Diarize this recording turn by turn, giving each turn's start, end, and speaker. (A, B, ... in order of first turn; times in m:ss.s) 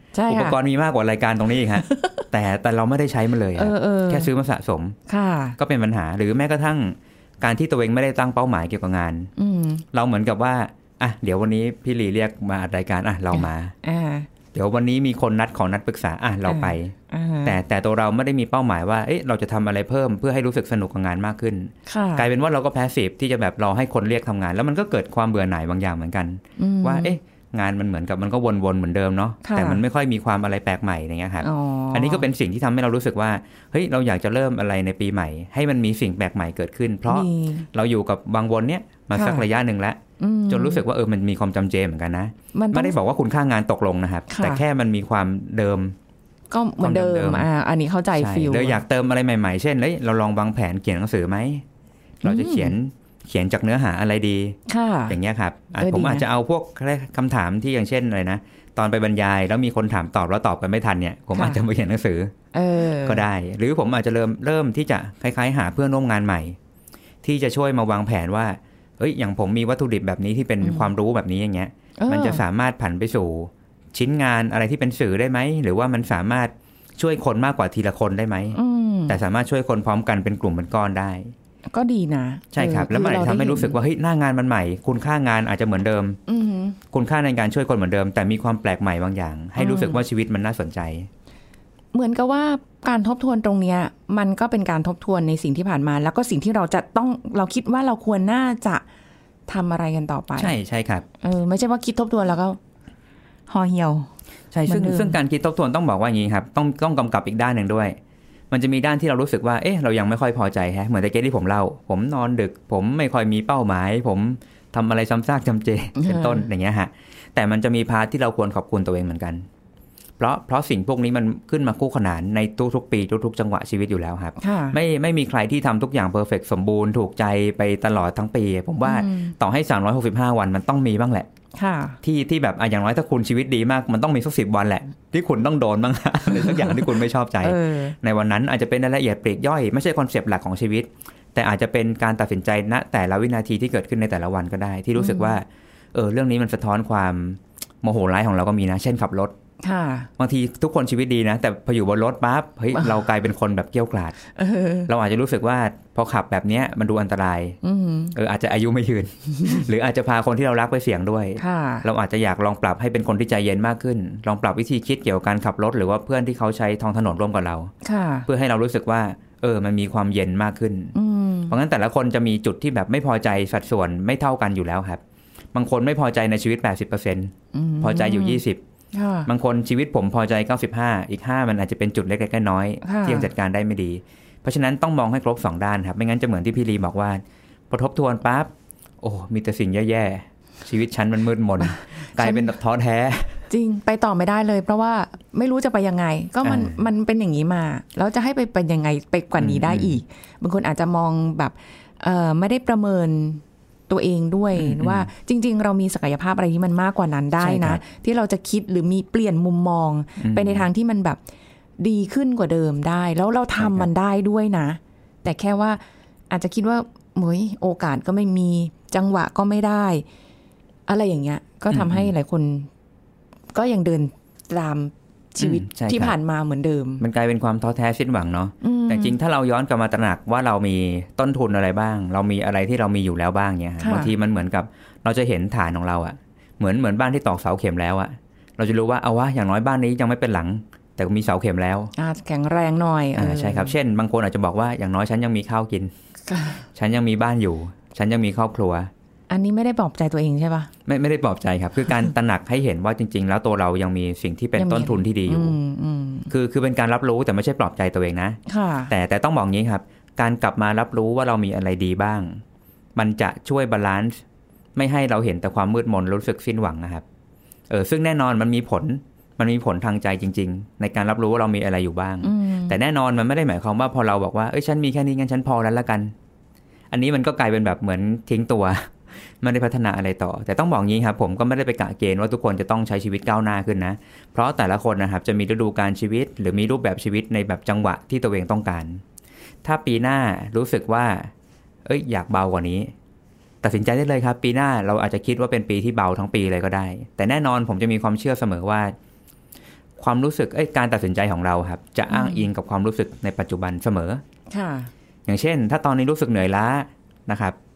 0:00.1-0:00.6 A
0:00.3-0:05.0 B
0:01.8-0:02.2 A
0:03.6-0:04.3 A
0:05.1-0:05.6 A
0:05.6-0:09.3 B
0:09.4-0:09.8 A
0:09.9-0:13.7 B
0:13.3-0:14.3 A
0:14.5-0:46.0 B
0:16.4-0:17.6 A
0:21.9-0:22.3 A
0:26.6-0:27.2 A
0:29.4-0:29.8 A
0:31.4-0:32.3 A
0:37.1-0:37.7 A
0:39.1-0:39.4 A
0:40.2-0:40.8 A
0:42.5-0:43.0 A
0:44.3-0:44.6 A
0:46.5-0:48.8 A
0:46.8-0:47.5 B
0:48.1-0:51.6 B
0:52.2-1:02.3 B
0:52.2-0:52.8 A
0:54.7-0:55.2 A
0:55.8-0:56.2 A
1:01.3-1:01.6 A
1:02.5-1:03.2 A
1:03.0-1:06.6 B
1:07.2-1:21.3 B
1:10.6-1:10.9 A
1:12.0-1:12.4 A
1:18.5-1:19.2 A
1:21.7-1:23.8 A
1:22.5-1:26.2 B
1:26.3-1:26.8 A
1:26.9-1:31.1 B
1:29.6-1:30.0 A
1:31.9-1:38.8 A
1:39.5-1:40.5 A
1:40.4-1:41.0 B
1:41.2-1:42.6 A
1:43.5-1:44.1 A
1:44.5-1:48.0 B
1:44.6-1:45.2 A
1:48.5-1:59.4 B
1:56.0-1:56.4 A
2:00.2-2:11.3 B
2:04.4-2:04.8 A
2:08.8-2:09.3 A
2:11.6-2:12.0 A
2:12.0-2:29.3 B
2:16.4-2:16.8 A
2:17.4-2:18.0 A
2:25.0-2:25.4 A
2:29.6-2:30.1 A
2:30.2-2:34.2 B
2:34.3-2:34.9 A
2:34.9-2:37.6 B
2:37.6-2:38.1 A
2:38.1-2:47.7 B
2:41.4-2:41.8 A
2:47.8-2:48.3 A
2:48.2-2:50.9 B
2:50.9-2:51.5 A
2:51.5-2:55.0 B
2:55.5-2:58.6 B
2:57.5-2:58.4 A
2:58.9-2:59.3 A
2:59.2-3:13.4 B
3:02.8-3:03.3 A
3:11.6-3:12.5 A
3:13.5-3:31.2 A
3:16.4-3:16.8 B
3:19.4-3:20.0 B
3:24.5-3:25.1 B
3:27.4-3:27.8 B
3:30.2-3:30.7 B
3:31.8-3:40.0 A
3:33.6-3:33.9 B
3:40.9-3:42.7 A
3:41.7-3:42.1 B
3:43.5-3:47.0 A
3:45.4-3:46.2 B
3:47.0-4:01.9 B
3:48.6-3:49.2 A
3:53.8-3:54.1 A
4:02.0-4:03.7 A
4:03.2-4:05.9 B
4:06.3-4:06.6 A
4:06.7-4:08.9 B
4:09.3-4:10.7 A
4:10.9-4:15.6 B
4:14.6-4:16.3 A
4:16.3-4:22.4 B
4:18.5-4:18.9 A
4:23.0-4:24.2 B
4:24.8-4:27.0 B
4:27.7-4:36.1 B
4:32.2-4:32.8 A
4:36.9-4:49.0 B
4:49.6-4:51.3 B
4:51.8-4:52.9 B
4:53.6-4:58.9 B
5:00.0-5:04.2 B
5:02.1-5:02.5 A
5:04.5-5:04.9 A
5:05.3-5:07.6 B